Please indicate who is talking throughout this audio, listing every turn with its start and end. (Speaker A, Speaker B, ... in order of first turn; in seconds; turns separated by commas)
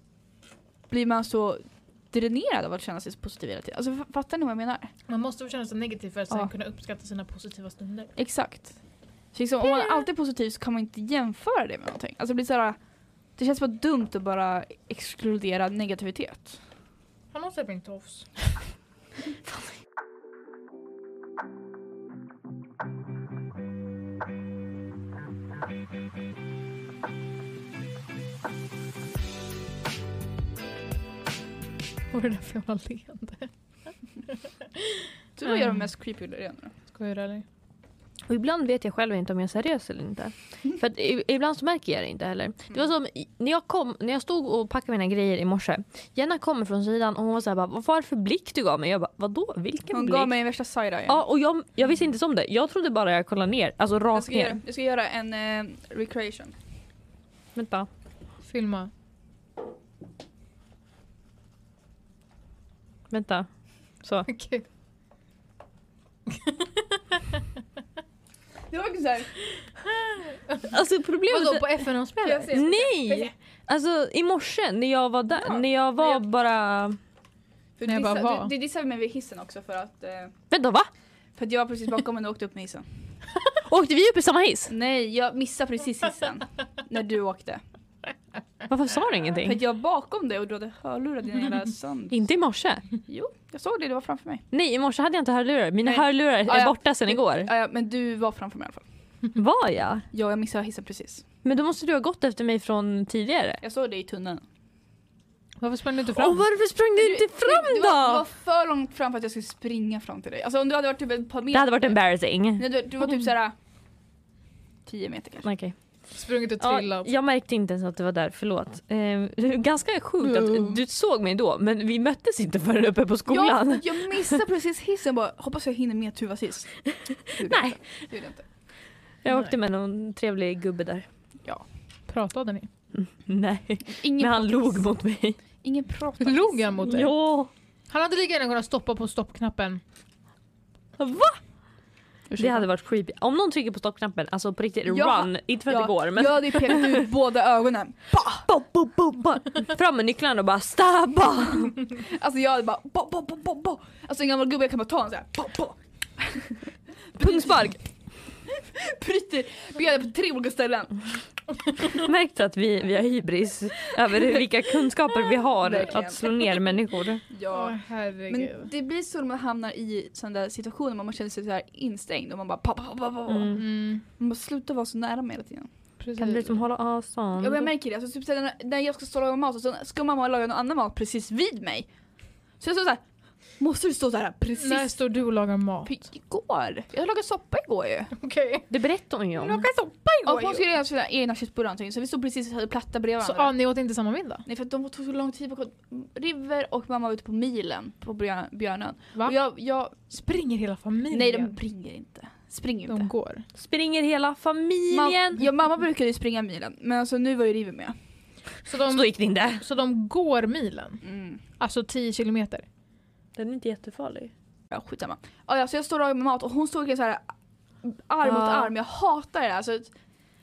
Speaker A: 0.9-4.9, Speaker B: 5.1-8.1, Speaker A: 8.2-8.8, Speaker A: 9.3-12.8, Speaker A: 13.3-16.6, Speaker B: 17.3-18.5, Speaker B: 32.1-33.5, Speaker B: 34.8-35.8, Speaker A: 35.4-36.7, Speaker B: 36.9-37.4, Speaker C: 38.3-50.3, Speaker A: 49.9-51.2, Speaker C: 51.1-54.6, Speaker A: 54.1-56.5, Speaker C: 57.5-57.9, Speaker B: 58.4-58.9, Speaker C: 63.1-63.5, Speaker C: 64.0-64.3, Speaker B: 64.3-64.6, Speaker B: 66.3-67.2, Speaker A: 68.7-69.3, Speaker B: 70.3-70.7, Speaker C: 70.7-71.7, Speaker B: 71.3-73.3, Speaker A: 72.2-72.7, Speaker C: 72.5-77.0, Speaker A: 77.8-80.3, Speaker B: 77.8-78.5, Speaker C: 80.5-80.9, Speaker A: 81.3-82.8, Speaker C: 83.7-84.7, Speaker A: 84.7-87.6, Speaker C: 88.7-89.6, Speaker A: 89.4-92.2, Speaker C: 92.1-92.8, Speaker A: 93.1-94.4, Speaker C: 94.5-97.5, Speaker A: 95.8-98.8, Speaker C: 99.3-100.0, Speaker A: 100.1-101.2, Speaker C: 101.4-103.6, Speaker A: 103.6-104.4, Speaker B: 105.6-106.4, Speaker C: 106.1-108.2, Speaker A: 107.0-112.0, Speaker C: 111.5-112.7, Speaker A: 112.5-113.5, Speaker A: 114.8-115.5, Speaker C: 115.4-115.8, Speaker B: 116.1-117.1, Speaker C: 116.6-124.4, Speaker A: 120.2-120.8, Speaker A: 123.3-128.4, Speaker C: 126.9-128.1, Speaker C: 129.2-131.1, Speaker B: 132.1-132.7, Speaker C: 132.9-135.4, Speaker A: 133.9-134.8, Speaker A: 135.6-136.8, Speaker B: 136.2-137.1, Speaker C: 136.8-137.5, Speaker B: 137.9-139.8, Speaker C: 141.0-141.4, Speaker A: 142.3-142.7, Speaker C: 142.4-147.0, Speaker A: 144.8-148.5, Speaker C: 148.4-151.7, Speaker A: 151.9-157.7, Speaker C: 157.2-157.8, Speaker A: 158.4-161.1, Speaker C: 161.9-167.2, Speaker A: 165.6-166.5, Speaker A: 167.3-175.7, Speaker B: 167.5-168.7, Speaker C: 173.3-173.6, Speaker B: 173.6-174.0, Speaker B: 176.0-176.6, Speaker C: 176.2-177.7, Speaker A: 177.4-181.9, Speaker A: 182.6-183.0, Speaker A: 183.6-184.9, Speaker B: 184.6-185.9, Speaker A: 185.8-188.1, Speaker B: 188.2-188.7, Speaker C: 188.7-189.7, Speaker B: 189.4-190.6, Speaker A: 190.2-193.5, Speaker B: 193.2-194.4, Speaker A: 194.4-200.0, Speaker B: 199.9-201.5, Speaker A: 201.1-203.1, Speaker B: 202.9-203.4, Speaker C: 203.6-205.4, Speaker A: 204.9-207.9, Speaker B: 208.7-211.0, Speaker C: 208.8-209.6, Speaker A: 211.0-211.4, Speaker B: 211.6-212.6, Speaker C: 213.3-214.3, Speaker A: 214.7-217.2, Speaker A: 217.8-219.9, Speaker C: 218.2-218.7